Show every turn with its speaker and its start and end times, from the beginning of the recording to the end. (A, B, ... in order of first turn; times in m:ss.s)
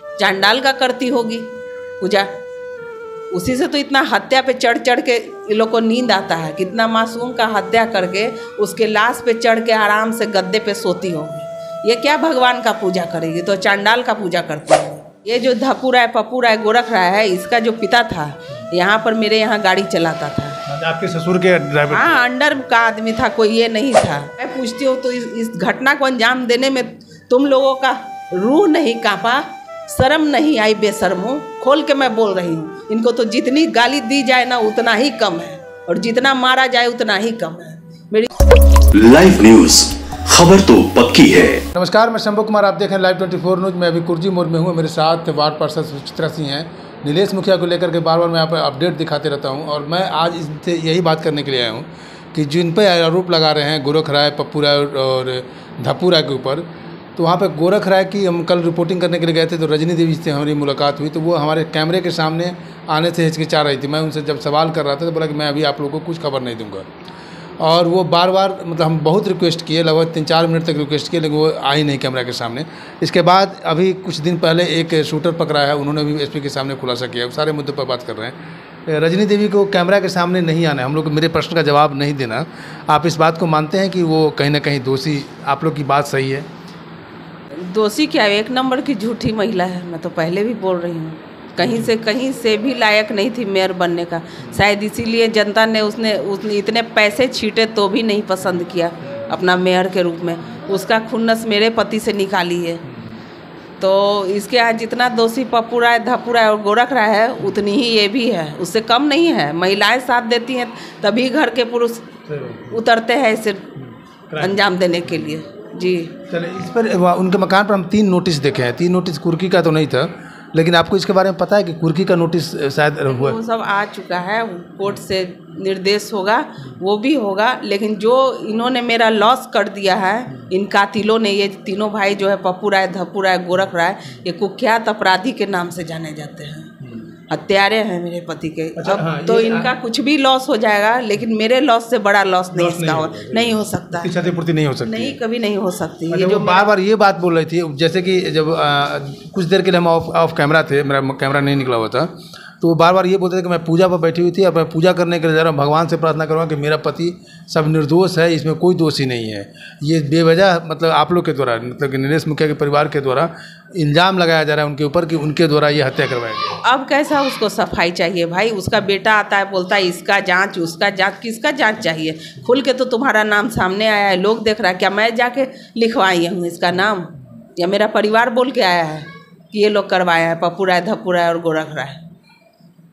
0:00.2-0:02.3 A
0:03.3-0:20.6 A
0:20.7-0:22.2 B
0:21.9-0:38.3 A
0:38.9-0:41.6 C
0:41.7-1:06.8 B
1:07.6-1:18.4 B
1:18.9-1:26.5 B
1:27.5-1:42.8 A
1:31.6-1:31.9 B
1:42.9-1:43.2 B
1:43.8-1:52.1 A
1:52.3-1:52.8 B
1:52.7-1:53.7 A
1:53.8-1:54.7 B
1:54.4-1:56.2 A
1:56.3-2:03.4 B
2:03.1-2:16.7 A
2:17.3-2:24.1 A
2:18.8-2:19.7 B
2:22.5-2:25.2 B
2:24.8-2:26.6 A
2:26.1-2:46.6 B
2:46.6-3:02.0 A